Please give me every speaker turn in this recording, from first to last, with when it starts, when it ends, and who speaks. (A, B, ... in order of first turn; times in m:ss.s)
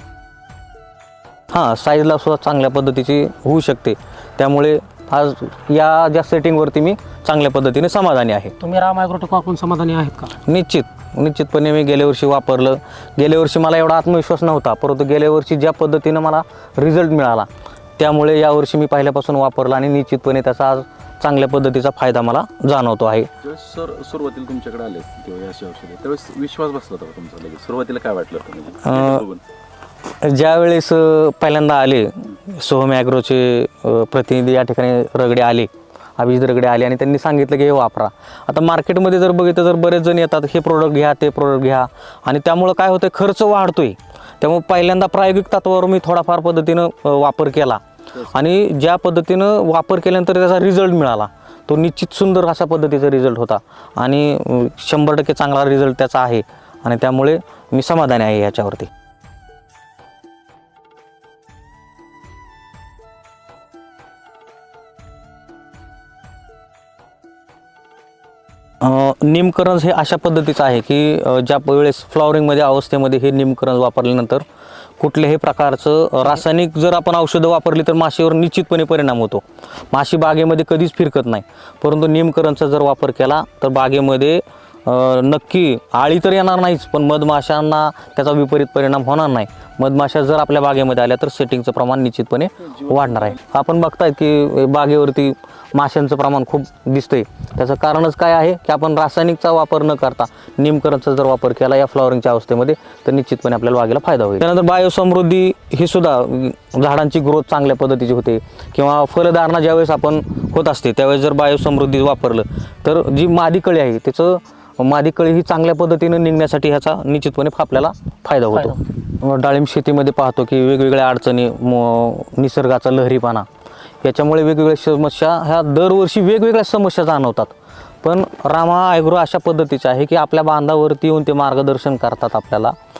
0:01.5-0:08.5 A
0:08.6-0:10.3 B
0:10.4-0:23.3 A
0:23.4-0:29.4 C
0:28.8-0:29.2 A
0:30.2-0:58.9 A
1:08.8-1:14.4 A
1:15.0-2:03.4 A
1:58.5-1:58.8 B
2:04.0-2:12.7 A